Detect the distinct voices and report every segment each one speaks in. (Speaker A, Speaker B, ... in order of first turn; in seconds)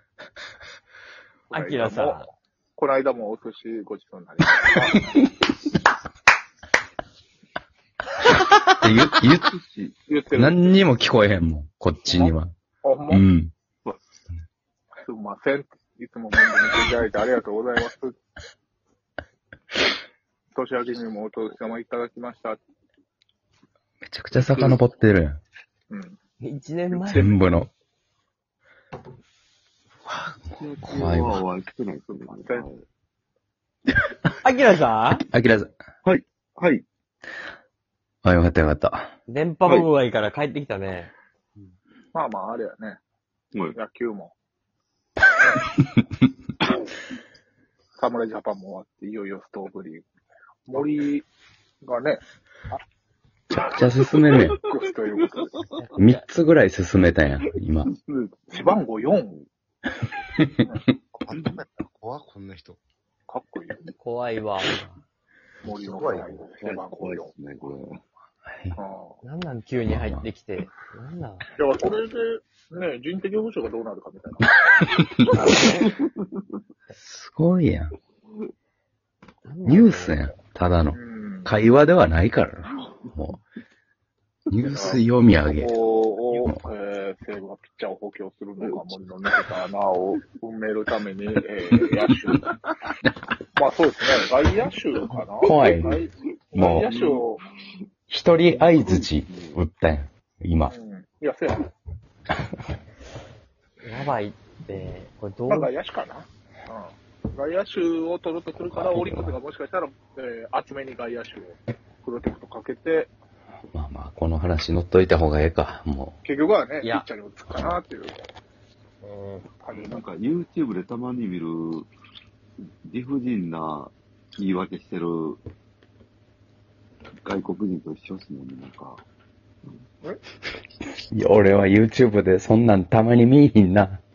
Speaker A: 1.5-5.2, 10.1-10.8, 12.1-13.2, 15.0-18.1, 20.5-22.6, 24.5-24.8, 25.9-26.2, 26.9-27.6, 32.4-32.6, 42.1-43.0, 43.7-44.3, 48.0-50.0, 50.7-51.3, 51.8-52.2, 54.6-55.6, 58.5-59.4, 63.3-63.8, 65.6-67.3, 68.8-69.2, 71.6-74.5, 80.9-81.5, 84.7-92.5, 93.5-97.4, 100.7-101.7, 105.5-113.1, 116.2-118.2, 119.6-120.0
Speaker B: 1.5-2.3, 26.4-27.2, 34.4-35.2, 39.3-41.1, 55.8-56.2, 64.0-64.9, 69.2-71.5, 79.4-80.2, 103.8-105.7, 119.0-119.5
Speaker C: 8.7-9.5, 10.3-12.5, 13.1-13.5, 24.0-25.4, 27.1-27.7, 30.1-31.4, 35.3-35.7, 38.2-39.1, 53.5-54.6, 56.0-57.9, 68.5-68.8, 69.8-70.2, 74.8-75.6, 77.0-77.9, 79.6-83.4, 84.5-85.8, 95.4-96.0, 98.1-100.7, 108.6-109.4, 113.7-116.2, 131.1-134.0
Speaker D: 9.1-10.0, 30.6-32.8, 36.0-36.8, 54.0-54.7, 55.4-55.8, 57.9-59.5, 61.3-61.6, 66.1-68.0, 75.8-76.4, 96.5-97.3, 98.5-99.6, 119.7-121.9, 122.8-125.4, 127.2-129.0
Speaker E: 61.1-62.8, 65.8-66.4